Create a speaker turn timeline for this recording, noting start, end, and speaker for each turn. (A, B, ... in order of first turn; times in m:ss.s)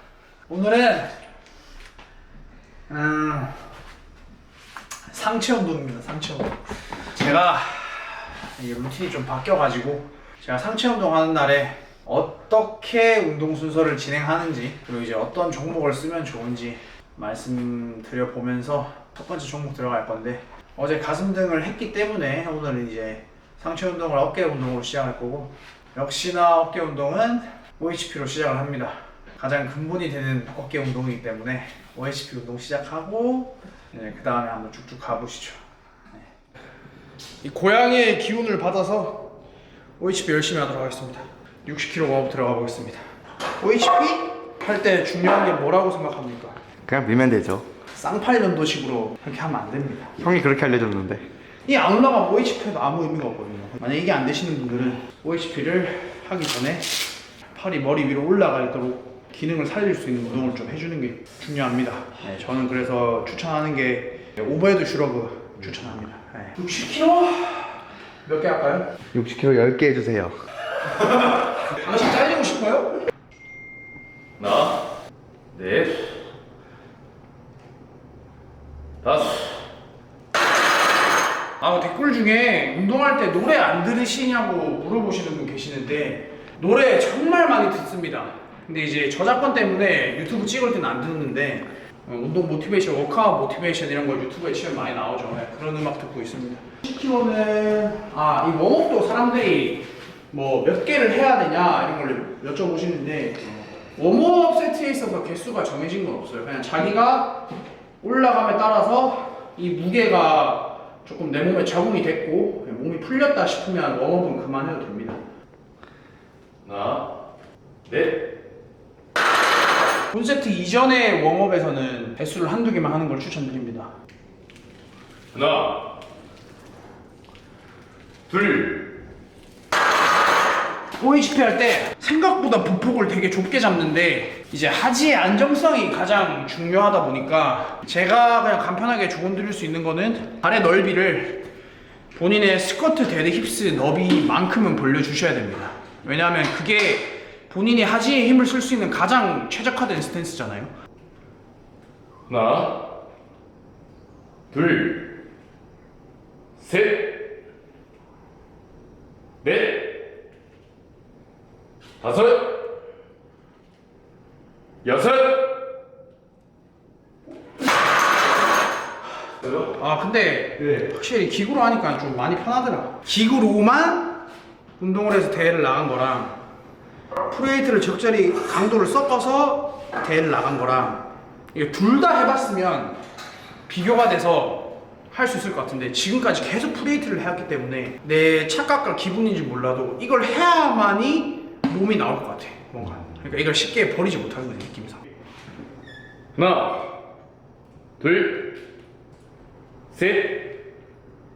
0:00.5-0:01.2 A
0:02.9-0:03.7 A
0:05.1-0:35.6 A
0:37.4-0:39.4 A
0:40.0-0:43.0 A
0:43.6-0:46.6 A
0:46.8-0:47.7 B
0:48.0-0:50.2 A
0:50.2-0:51.3 B
0:51.6-0:57.0 A
0:57.5-1:08.9 A
1:09.1-1:10.4 B
1:11.0-1:13.0 A
1:14.4-1:14.8 C
1:15.5-1:16.1 C
1:19.0-1:19.5 C
1:21.6-1:47.5 A
1:48.0-1:55.2 A
1:56.6-1:57.1 C
1:57.9-1:58.3 C
2:00.1-2:03.9 A
2:05.3-2:05.9 C
2:08.3-2:08.9 C
2:11.0-2:21.4 A
2:22.1-2:30.7 A
2:32.3-2:32.9 C
2:34.5-2:35.2 C
2:36.6-2:37.2 C
2:39.4-2:40.0 C
2:42.0-2:42.6 C
2:44.8-2:45.6 C
2:49.7-2:54.2 A
2:54.8-2:56.4 A
2:57.3-3:03.0 A
3:03.7-3:15.0 A
3:16.4-3:16.9 C
3:18.0-3:18.6 C
3:19.9-3:20.6 C